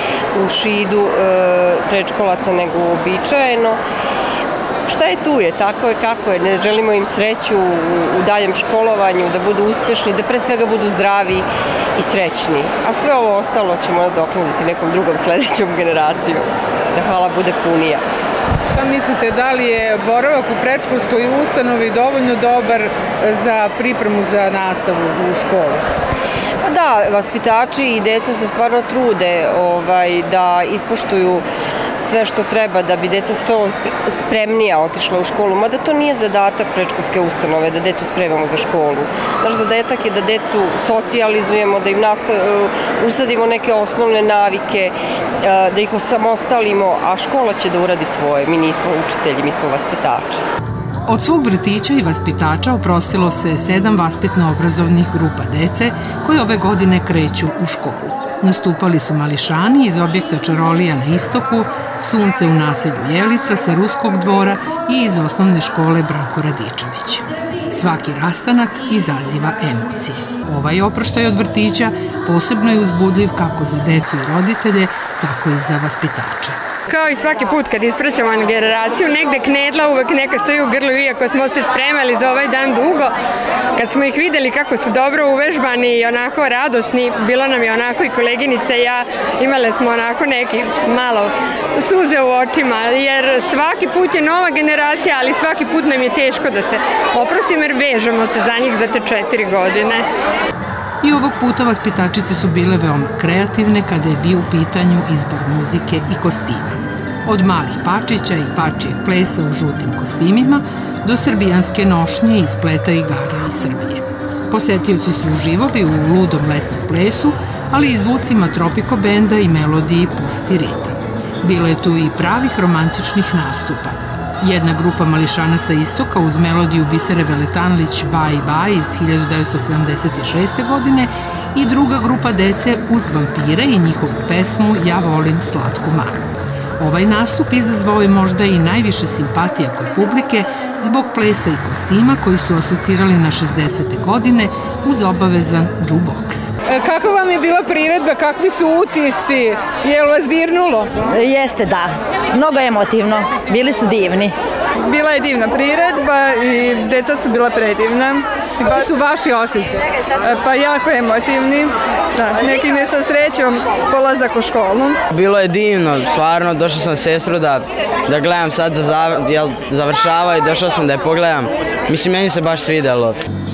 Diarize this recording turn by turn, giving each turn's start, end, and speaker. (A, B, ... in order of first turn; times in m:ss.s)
0:00.3-0:03.8 A
0:04.9-0:11.4 A
0:12.0-0:18.0 A
0:18.7-0:25.8 B
0:26.6-0:31.4 A
0:32.0-0:50.4 A
0:51.0-1:16.6 C
1:16.9-1:23.1 D
1:23.7-1:40.0 D
1:41.0-2:16.2 C
2:16.8-2:26.5 C
2:26.7-2:31.1 B
2:31.1-2:34.3 E
2:34.8-2:38.8 F
2:38.6-2:39.8 B
2:40.2-2:45.0 F
2:45.1-2:53.2 G